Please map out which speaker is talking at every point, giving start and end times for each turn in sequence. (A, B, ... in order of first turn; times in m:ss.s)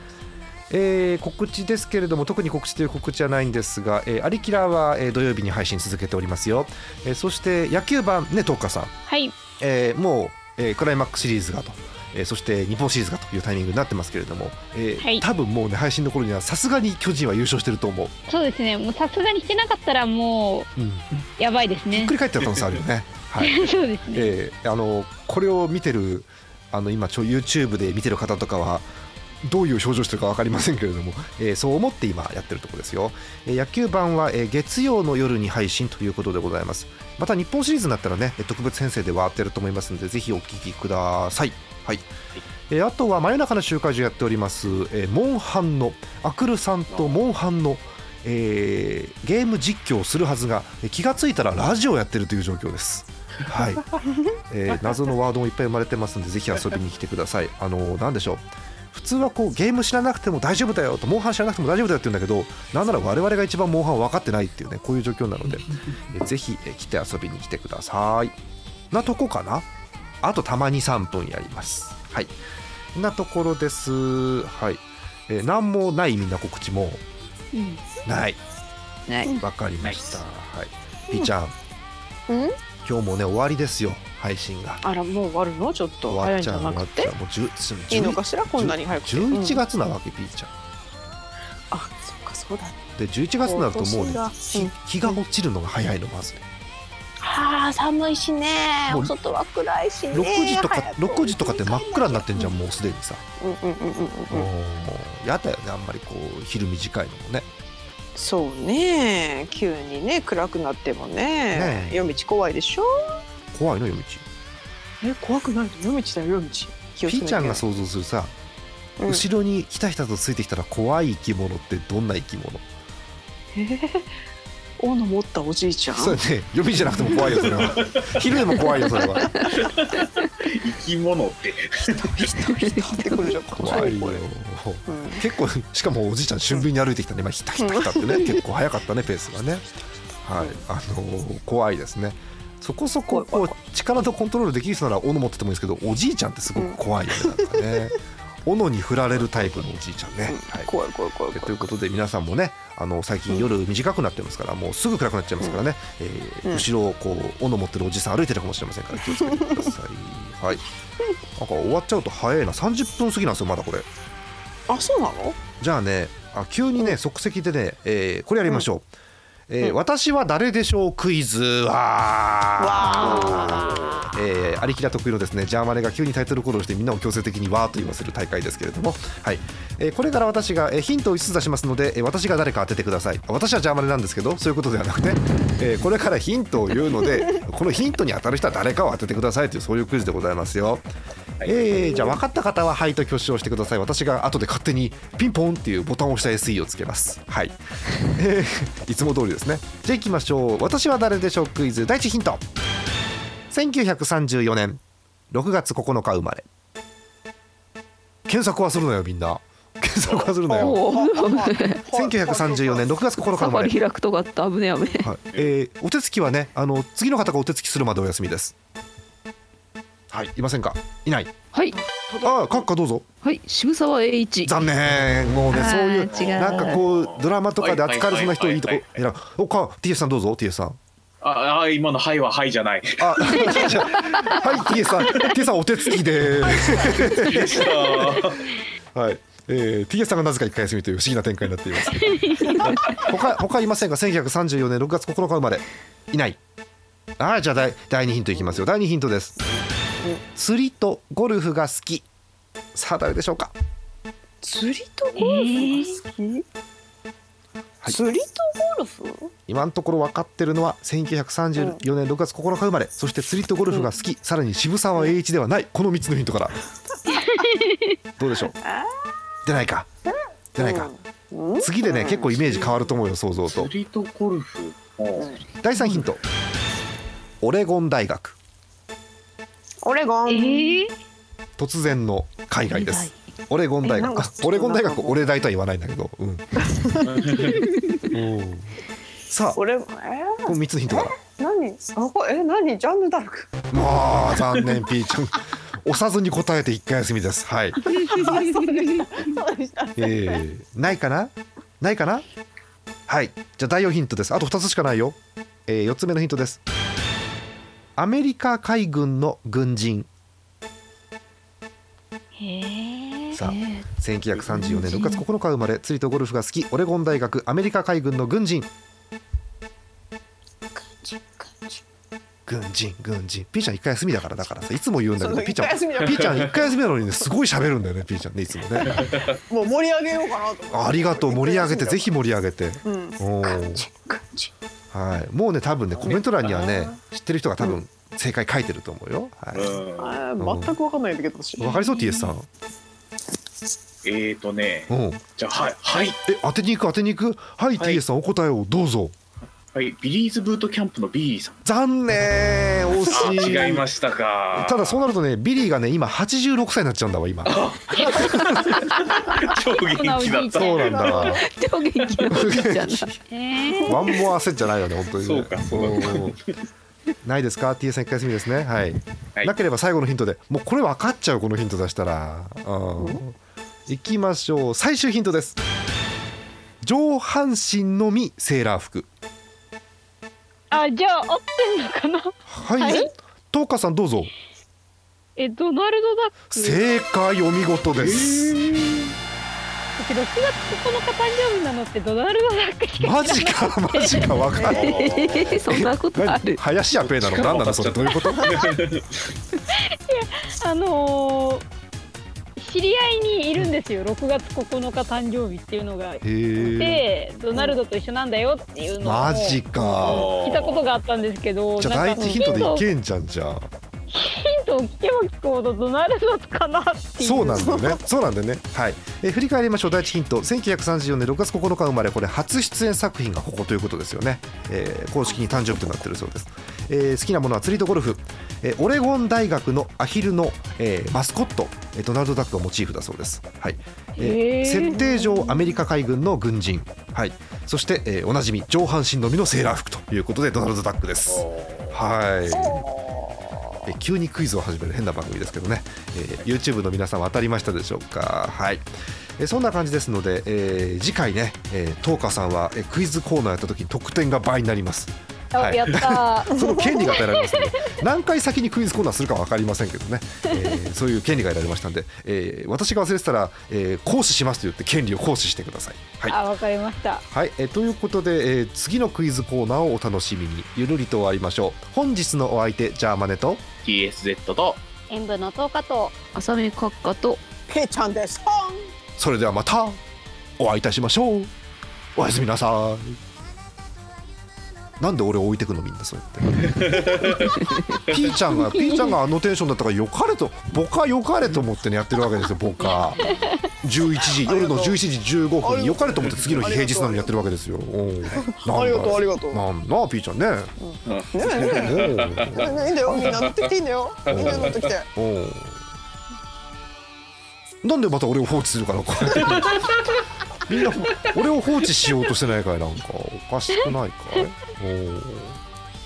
0:00.7-0:08.9 A
0:09.1-0:09.3 B
0:09.6-0:18.1 A
0:18.3-0:20.7 B
0:20.8-0:21.1 A
0:21.4-0:22.1 B
0:21.9-0:28.8 A
0:23.4-0:24.3 B
0:29.4-0:42.0 A
0:42.7-0:54.0 A
0:46.9-0:47.2 C
0:54.5-1:08.3 A
1:08.9-1:09.6 A
1:10.2-1:12.3 A
1:12.9-1:17.0 A
1:17.5-1:17.8 D
1:18.0-1:18.4 A
1:19.1-1:19.3 D
1:19.4-1:21.5 A
1:22.3-1:22.6 E
1:22.8-1:24.8 A
1:24.8-1:27.1 E
1:26.1-1:30.5 A
1:27.9-1:29.6 E
1:31.7-1:32.8 E
1:33.0-1:36.4 A
1:33.4-1:35.2 E
1:37.2-1:42.5 E
1:38.9-1:39.1 A
1:40.1-1:43.2 A
1:43.4-1:44.5 E
1:44.3-1:47.4 A
1:48.2-1:53.2 E
1:51.5-1:52.2 A
1:53.5-1:54.2 A
1:55.0-1:57.6 E
1:57.0-1:58.3 A
1:59.0-1:59.2 E
1:59.1-2:02.6 A
2:03.5-2:04.1 E
2:04.8-2:06.2 E
2:05.9-2:09.3 A
2:07.0-2:07.6 E
2:07.5-2:08.4 C
2:09.5-2:12.1 C
2:12.0-2:14.2 E
2:12.2-2:13.3 D
2:13.5-2:19.6 A
2:14.9-2:15.3 E
2:17.6-2:18.4 E
2:20.2-2:30.7 A
2:23.1-2:23.5 E
2:26.6-2:27.8 E
2:30.3-2:31.7 E
2:31.3-2:40.6 A
2:38.9-2:39.7 E
2:41.4-2:43.9 A
2:44.7-2:45.4 E
2:45.6-2:48.9 A
2:49.5-3:10.8 A
2:52.6-2:54.2 E
2:53.0-2:53.7 C
3:06.9-3:07.4 E
3:11.4-3:22.4 A
3:23.5-3:26.4 A
3:28.3-3:30.8 A
3:30.1-3:30.3 C
3:30.4-3:32.9 E
3:30.5-3:31.8 D
3:31.9-3:33.7 A
3:33.3-3:35.1 D
3:35.0-3:38.5 A
3:40.1-3:41.3 A
3:41.7-3:42.6 E
3:42.2-3:43.0 A
3:43.2-3:44.5 D
3:44.4-3:50.8 A
3:45.5-3:46.8 D
3:46.1-3:49.0 C
3:51.2-3:54.2 C
3:53.0-3:57.7 A
3:56.4-3:58.5 C
3:58.9-4:06.4 A
4:02.0-4:02.6 B
4:07.2-4:09.4 A
4:09.4-4:10.2 E
4:10.3-4:12.0 A
4:12.7-4:13.5 A
4:14.4-4:16.4 E
4:15.2-4:15.9 B
4:17.8-4:19.3 E
4:19.5-4:26.6 A
4:26.9-4:27.6 E
4:27.4-4:27.9 B
4:28.2-4:28.5 A
4:28.3-4:28.9 E
4:29.4-4:29.9 A
4:30.0-4:32.7 E
4:30.6-4:30.9 A
4:31.6-4:33.7 A
4:33.4-4:35.3 C
4:35.6-4:36.2 A
4:37.4-4:38.4 A
4:39.8-4:40.8 E
4:40.3-4:40.9 B
4:41.6-4:46.7 A
4:42.7-4:43.1 D
4:43.8-4:45.4 E
4:46.6-4:47.9 E
4:47.0-4:47.6 C
4:48.1-4:48.8 A
4:49.3-4:49.6 A
4:49.6-4:53.5 E
4:50.4-4:51.1 A
4:53.7-4:57.8 A
4:57.8-5:00.4 E
4:58.1-4:58.7 B
5:00.0-5:02.2 A
5:03.1-5:06.6 A
5:08.0-5:10.1 A
5:12.4-5:13.9 D
5:13.3-5:18.7 A
5:14.5-5:15.2 D
5:20.7-5:21.8 E
5:22.5-5:29.0 A
5:25.2-5:26.7 E
5:28.8-5:32.0 E
5:28.9-5:29.2 C
5:30.7-5:33.8 A
5:32.8-5:34.5 E
5:34.9-5:39.8 A
5:36.0-5:36.7 C
5:36.0-5:37.0 E
5:39.5-5:40.2 C
5:40.0-5:41.8 E
5:40.4-5:40.8 A
5:41.6-5:42.5 A
5:44.0-5:46.2 C
5:44.9-5:45.2 A
5:46.2-5:49.1 A
5:49.7-5:51.6 C
5:51.6-5:53.8 A
5:53.1-5:55.0 C
5:54.5-5:58.8 A
5:57.4-6:01.4 C
5:59.9-6:01.2 B
6:00.5-6:01.4 A
6:01.3-6:03.2 D
6:02.3-6:03.1 A
6:03.3-6:04.0 B
6:03.8-6:06.4 A
6:05.2-6:06.5 C
6:07.2-6:13.3 A
6:13.0-6:13.2 E
6:13.9-6:15.6 A
6:16.8-6:19.1 A
6:20.7-6:23.1 B
6:22.5-6:24.3 A
6:22.8-6:23.1 E
6:25.4-6:26.8 B
6:26.5-6:28.8 A
6:28.0-6:29.0 C
6:30.0-6:34.4 B
6:33.0-6:34.9 A
6:34.6-6:35.6 C
6:34.8-6:36.6 D
6:35.7-6:38.7 A
6:37.0-6:39.3 C
6:39.7-6:41.6 B
6:42.6-6:52.8 B
6:46.2-6:47.0 A
6:47.5-6:47.8 E
6:49.0-6:50.3 A
6:50.0-6:50.9 C
6:51.8-6:53.7 A
6:52.2-6:52.5 E
6:54.1-6:57.6 B
6:57.2-7:22.8 A
6:57.5-6:58.0 E
7:14.2-7:15.7 B
7:21.3-7:22.0 C
7:22.6-7:23.6 E
7:23.8-7:46.4 A
7:35.5-7:37.8 B
7:46.3-7:47.2 B
7:47.3-7:53.6 A
7:53.8-7:54.8 C
7:55.1-7:56.1 B
7:56.3-7:57.4 D
7:57.7-7:58.9 E
7:59.2-8:00.0 A
8:00.6-8:01.5 A
8:02.2-8:03.2 A
8:05.0-8:07.3 A
8:06.6-8:07.6 C
8:08.0-8:13.2 A
8:08.7-8:09.2 B
8:13.8-8:20.7 A
8:14.2-8:15.0 E
8:15.6-8:17.3 E
8:16.3-8:16.6 C
8:18.3-8:19.6 E
8:20.8-8:25.1 E
8:21.0-8:23.7 C
8:21.6-8:23.3 A
8:24.2-8:24.9 C
8:24.3-8:25.8 A
8:27.8-8:29.9 A
8:29.5-8:30.0 C
8:30.6-8:35.6 A